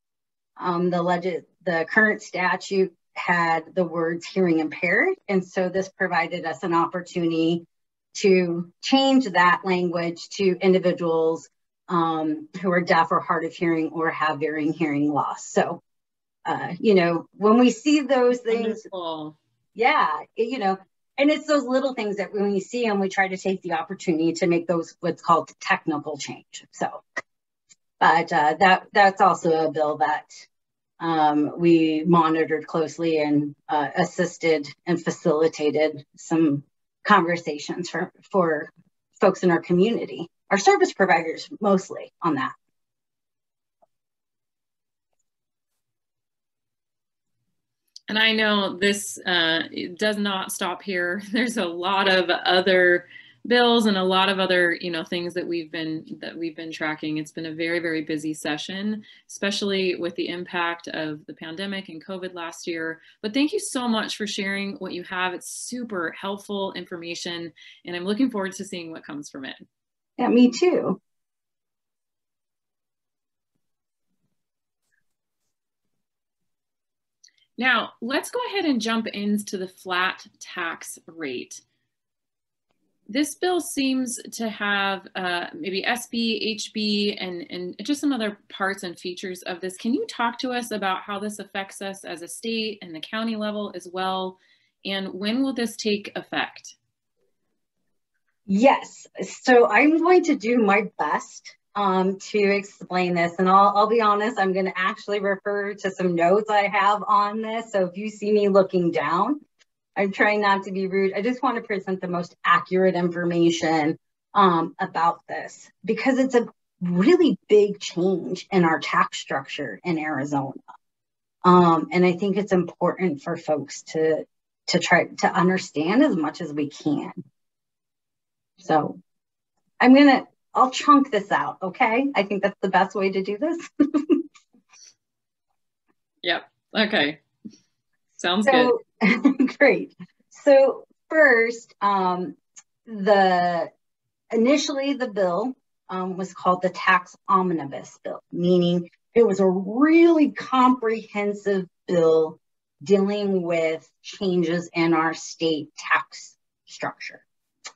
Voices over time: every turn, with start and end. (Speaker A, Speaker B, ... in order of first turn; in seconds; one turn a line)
Speaker A: 0.6-15.8
Speaker A: 16.4-18.8
Speaker B: 18.5-19.4
Speaker A: 19.7-27.0
Speaker A: 28.0-30.4
Speaker A: 31.0-42.5
Speaker B: 48.1-69.6
Speaker A: 70.2-71.0
Speaker B: 77.6-81.6
Speaker B: 83.1-96.8
Speaker A: 98.5-109.4
Speaker A: 110.0-120.6
Speaker A: 121.4-127.2
Speaker A: 128.6-129.0
Speaker A: 129.8-134.2
Speaker B: 136.2-137.2
Speaker B: 138.2-138.7
Speaker A: 138.4-143.7
Speaker A: 144.3-157.2